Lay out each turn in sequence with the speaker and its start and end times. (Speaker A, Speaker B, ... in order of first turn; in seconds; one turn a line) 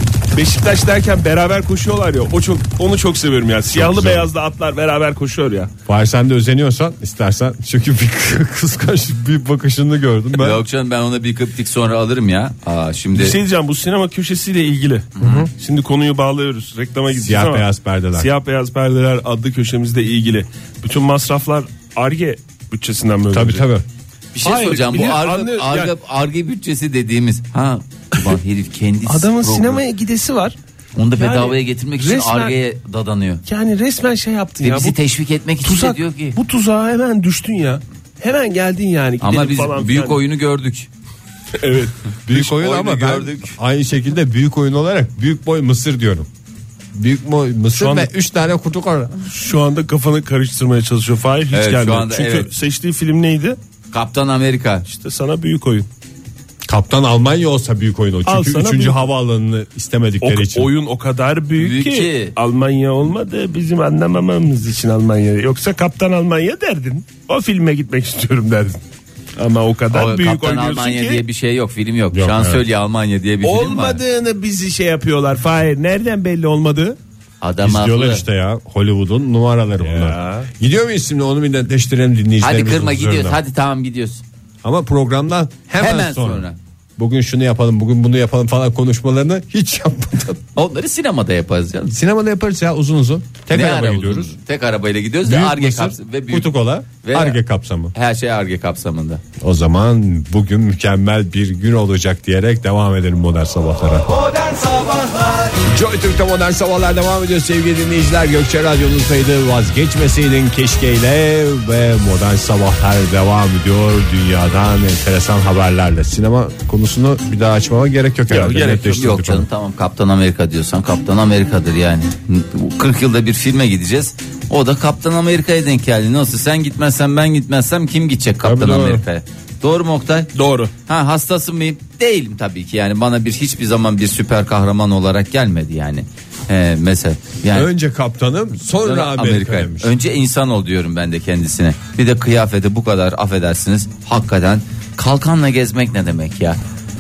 Speaker A: 0.3-5.7
Speaker B: 3.7-4.3
Speaker B: 5.8-10.6
Speaker C: 10.3-13.4
Speaker A: 13.1-23.7
Speaker C: 15.2-15.4
Speaker B: 15.2-15.5
Speaker B: 17.1-18.3
Speaker B: 23.3-23.8
Speaker C: 24.3-29.8
Speaker A: 24.4-25.9
Speaker A: 29.1-30.6
Speaker C: 30.9-33.4
Speaker A: 31.2-32.5
Speaker A: 33.5-35.0
Speaker C: 34.6-36.4
Speaker A: 35.6-40.2
Speaker C: 39.2-40.9
Speaker A: 41.6-42.0
Speaker B: 42.2-46.3
Speaker C: 42.3-43.6
Speaker B: 46.9-49.1
Speaker A: 47.8-48.1
Speaker A: 49.2-53.6
Speaker C: 51.5-52.5
Speaker C: 53.9-54.8
Speaker A: 54.9-55.9
Speaker B: 56.6-60.7
Speaker A: 58.2-59.1
Speaker A: 60.2-68.8
Speaker C: 61.6-62.3
Speaker A: 69.4-71.2
Speaker C: 69.9-74.0
Speaker B: 72.1-72.6
Speaker A: 73.4-77.0
Speaker C: 77.4-78.2
Speaker B: 77.6-83.4
Speaker A: 79.8-80.5
Speaker C: 82.4-84.2
Speaker B: 84.6-86.5
Speaker C: 85.8-86.5
Speaker B: 87.0-90.4
Speaker C: 90.5-92.0
Speaker B: 91.9-94.3
Speaker C: 93.5-97.4
Speaker B: 95.2-97.9
Speaker C: 97.9-99.2
Speaker B: 99.4-104.1
Speaker B: 105.6-119.5
Speaker A: 118.3-119.0
Speaker C: 118.8-130.3
Speaker B: 128.4-129.0
Speaker A: 130.3-130.7
Speaker C: 130.9-137.7
Speaker B: 137.5-139.9
Speaker C: 138.8-146.6